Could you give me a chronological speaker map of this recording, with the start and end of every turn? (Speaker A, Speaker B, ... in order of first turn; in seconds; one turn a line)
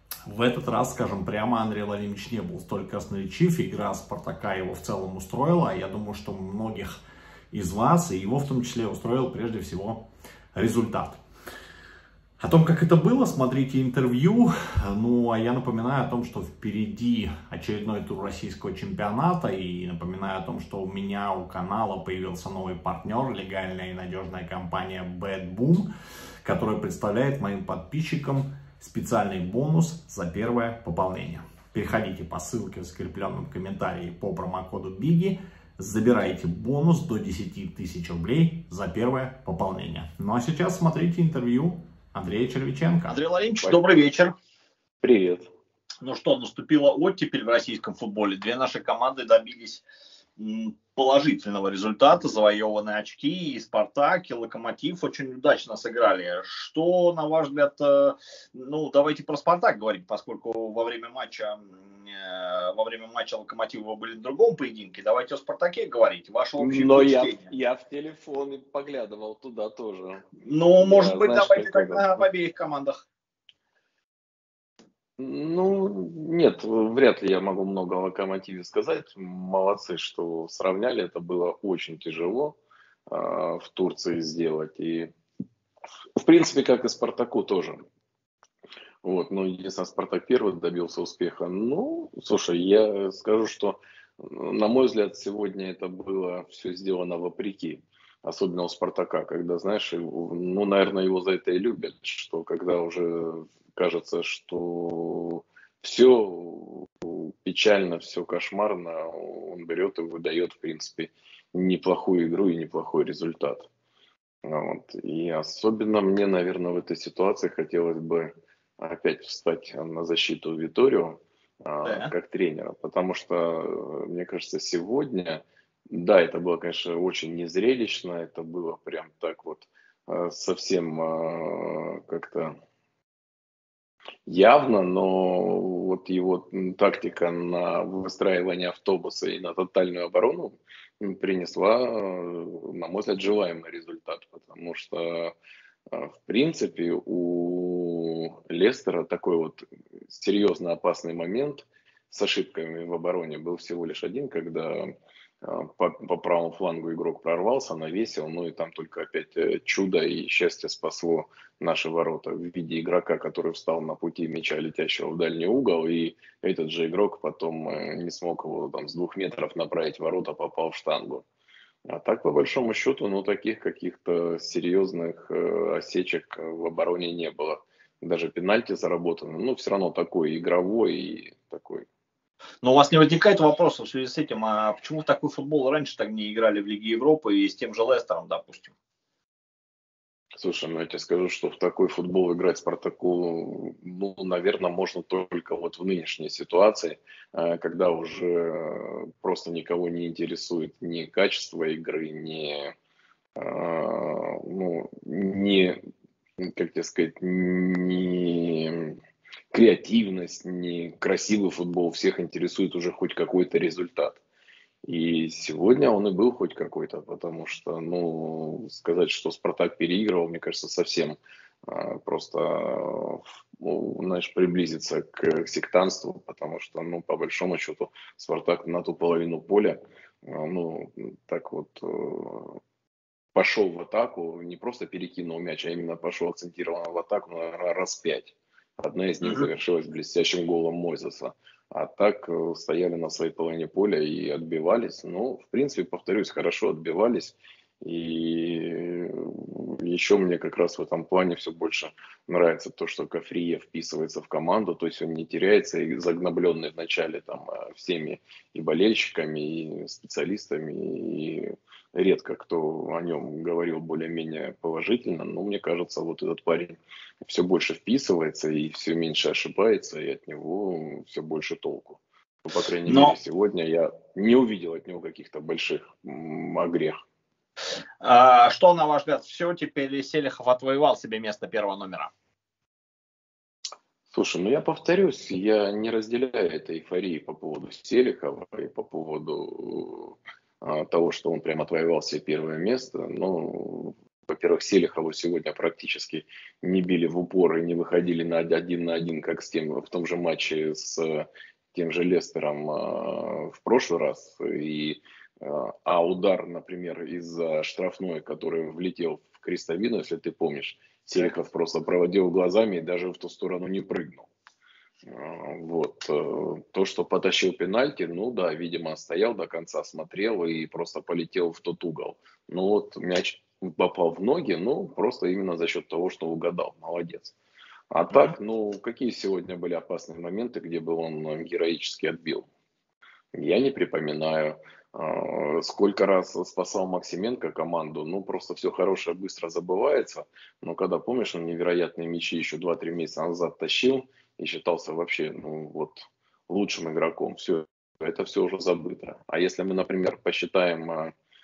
Speaker A: 0.3-7.0
Speaker A: 7.5-11.2
Speaker A: 12.4-25.9
Speaker A: 26.4-43.2
Speaker B: 43.1-44.3
Speaker C: 43.6-43.9
Speaker C: 45.0-45.5
Speaker B: 46.0-49.8
Speaker B: 50.4-67.5
Speaker C: 66.6-70.3
Speaker B: 70.4-73.0
Speaker C: 70.8-72.3
Speaker C: 75.2-82.6
Speaker C: 83.1-85.1
Speaker C: 86.2-87.8
Speaker C: 89.0-113.7
Speaker C: 114.5-132.6
Speaker B: 121.8-122.1
Speaker C: 134.3-145.3
Speaker C: 145.9-171.3
Speaker C: 171.9-181.9
Speaker B: 182.6-188.7
Speaker C: 190.4-202.7
Speaker C: 203.4-205.8
Speaker C: 206.4-209.0
Speaker C: 209.5-214.2
Speaker C: 214.8-232.6
Speaker C: 233.3-277.0
Speaker B: 239.2-239.5
Speaker B: 272.9-273.2
Speaker B: 278.0-282.1
Speaker C: 284.1-314.3
Speaker C: 315.1-327.4
Speaker C: 327.9-332.5
Speaker B: 328.1-328.4
Speaker C: 333.3-351.1